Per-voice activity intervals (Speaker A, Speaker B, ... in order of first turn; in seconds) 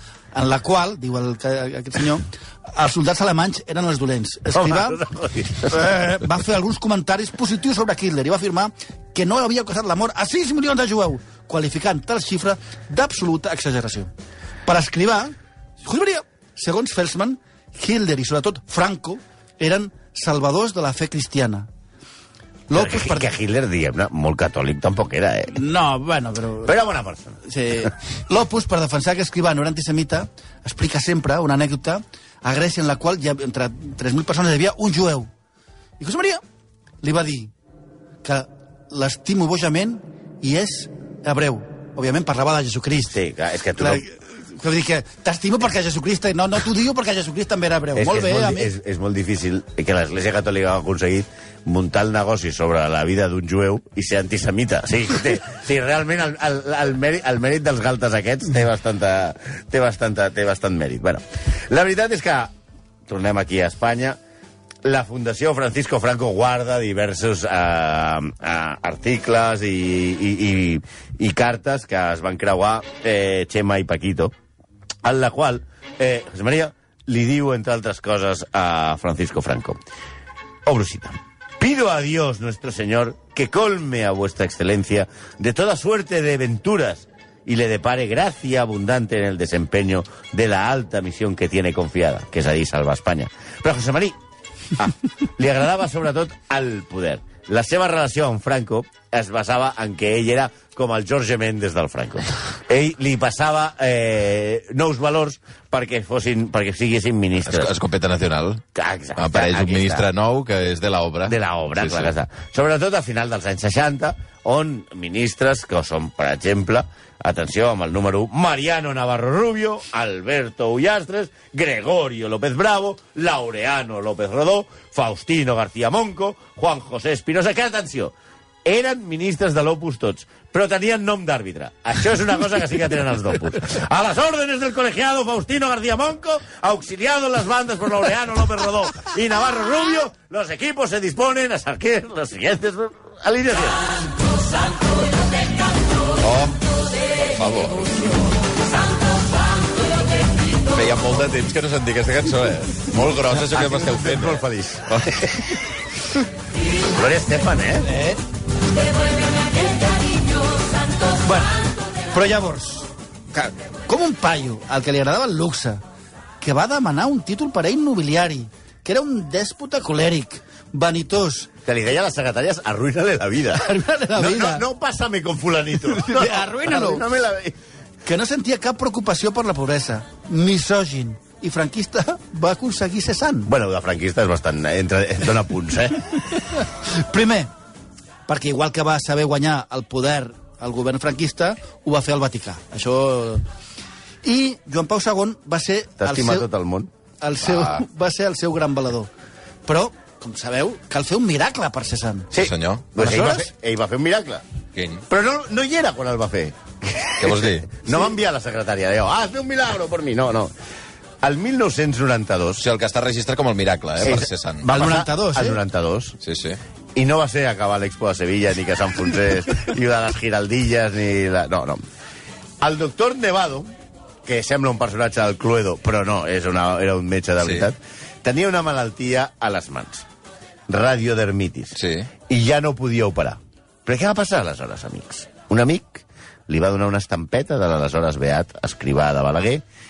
Speaker A: 0.3-5.0, 5.7-14.1, 14.7-21.7, 22.7-23.3, 25.5-26.8, 27.5-35.3, 36.0-36.4, 37.0-37.5, 38.2-43.2, 43.8-48.7, 157.9-158.2, 161.2-165.8, 166.4-171.5, 173.6-174.7, 175.8-177.0, 178.1-183.5, 186.5-187.5, 188.3-193.4, 194.2-196.5, 197.2-199.1, 199.7-202.3, 203.0-203.5, 214.7-215.6
Speaker B: 4.5-5.9, 22.7-25.6, 26.6-27.4, 43.1-44.0, 48.0-62.5, 63.1-64.2, 64.8-74.3, 75.0-79.8, 80.7-94.2, 94.8-107.7, 108.8-110.1, 111.3-128.1, 128.7-143.9, 153.3-155.5, 156.8-157.9, 171.7-177.6, 183.5-186.2, 196.0-196.9, 202.3-204.4, 205.1-210.5, 211.2-212.6, 214.0-216.2, 216.9-221.8, 222.6-223.7, 224.3-230.1, 230.7-239.6
Speaker C: 107.5-108.6, 109.2-112.1, 146.2-146.6, 147.3-148.1, 150.5-155.5, 197.4-197.8, 202.4-202.9, 204.8-205.0, 207.2-207.7, 212.6-214.7, 216.2-216.6, 227.4-227.7, 231.8-232.1